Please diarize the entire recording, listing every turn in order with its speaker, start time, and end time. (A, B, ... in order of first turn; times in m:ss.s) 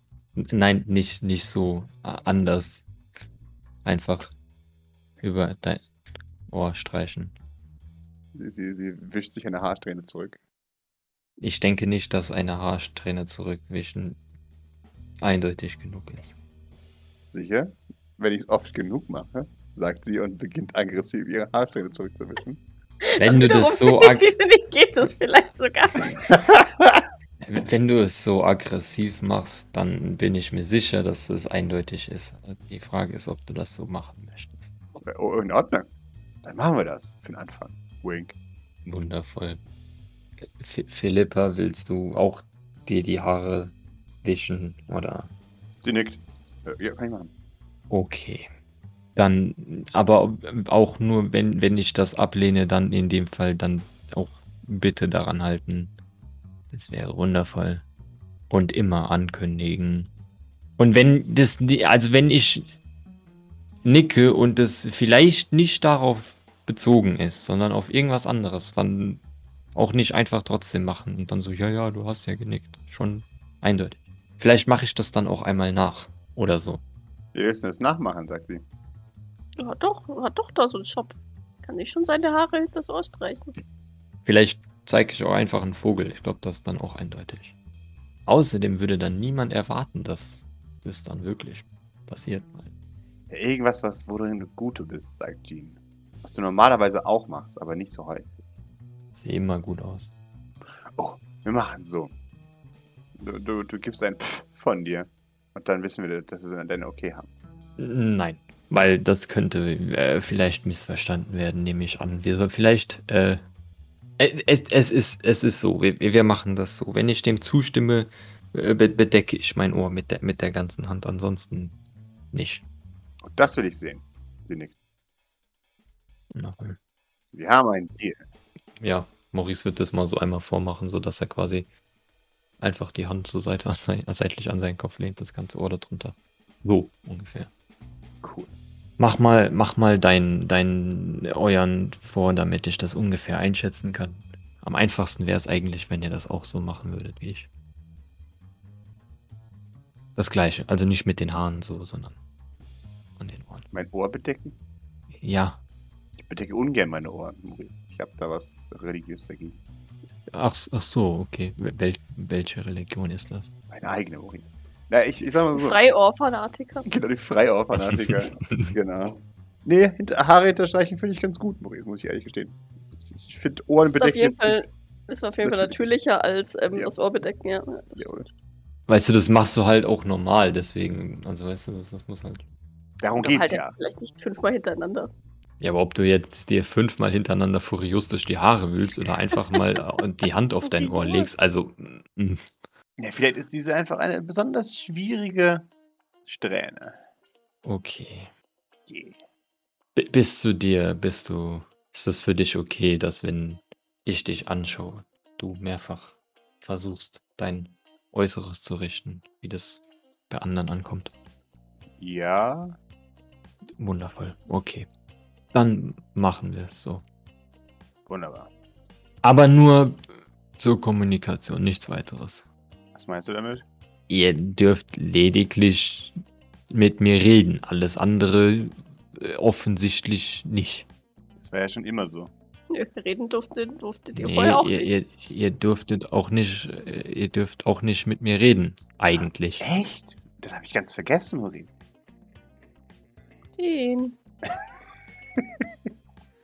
0:00.4-0:02.9 A
0:03.8-0:04.3 A
0:05.2-0:05.8 A
0:06.5-0:07.4 A
0:08.4-0:10.4 B
0:11.4-0:14.2 A
0:15.2-0:16.3 A
0:17.3-0:22.6 B
0:23.1-0:26.3 C
0:23.2-0:24.3 A
0:26.3-0:27.0 B
0:27.4-0:34.7 A
0:34.9-0:35.9 B
0:36.4-0:38.4 B
0:38.8-0:39.6 A
0:40.4-0:45.3 A
0:45.8-0:47.3 B
0:47.9-0:48.5 A
0:49.2-0:55.9 A
0:56.7-0:57.8 A
0:58.5-1:00.1 A
1:00.8-1:02.7 A
1:03.8-1:09.2 A
1:09.8-1:16.8 A
1:17.3-1:18.6 B
1:19.6-1:23.5 C
1:24.2-1:27.6 A
1:28.3-1:32.7 A
1:33.3-1:38.3 B
1:39.1-1:40.1 A
1:41.0-1:42.1 B
1:43.2-1:47.3 B
1:47.8-1:53.4 A
1:54.2-2:01.8 A
2:02.3-2:02.6 A
2:03.3-2:04.8 B
2:06.3-2:06.8 A
2:07.3-2:08.2 B
2:08.8-2:11.7 A
2:12.6-2:17.5 A
2:18.2-2:18.5 B
2:19.0-2:27.5 A
2:30.2-2:32.2 A
2:33.2-2:33.7 A
2:33.7-2:34.6 B
2:35.1-2:35.6 A
2:36.2-2:39.6 B
2:40.3-2:43.5 A
2:43.7-2:45.8 B
2:45.3-2:46.9 C
2:46.8-2:54.7 B
2:48.0-2:48.8 A
2:54.0-2:58.1 C
2:55.4-2:55.9 B
2:58.0-2:58.3 B
2:58.9-3:02.4 A
3:03.0-3:03.8 B
3:03.2-3:05.1 C
3:05.6-3:12.4 A
3:10.7-3:11.3 C
3:13.0-3:15.7 B
3:16.2-3:17.0 B
3:17.6-3:18.3 A
3:18.9-3:19.2 B
3:20.0-3:31.1 A
3:32.0-3:32.8 B
3:33.8-3:34.9 A
3:35.5-3:37.0 A
3:38.1-3:38.5 B
3:39.2-3:40.0 A
3:40.6-3:42.5 A
3:43.0-3:43.6 B
3:44.1-3:46.2 A
3:46.7-3:50.9 A
3:51.4-3:52.3 B
3:52.7-3:55.0 C
3:54.2-3:59.6 A
3:59.1-4:01.7 B
4:03.6-4:04.2 C
4:05.4-4:05.7 B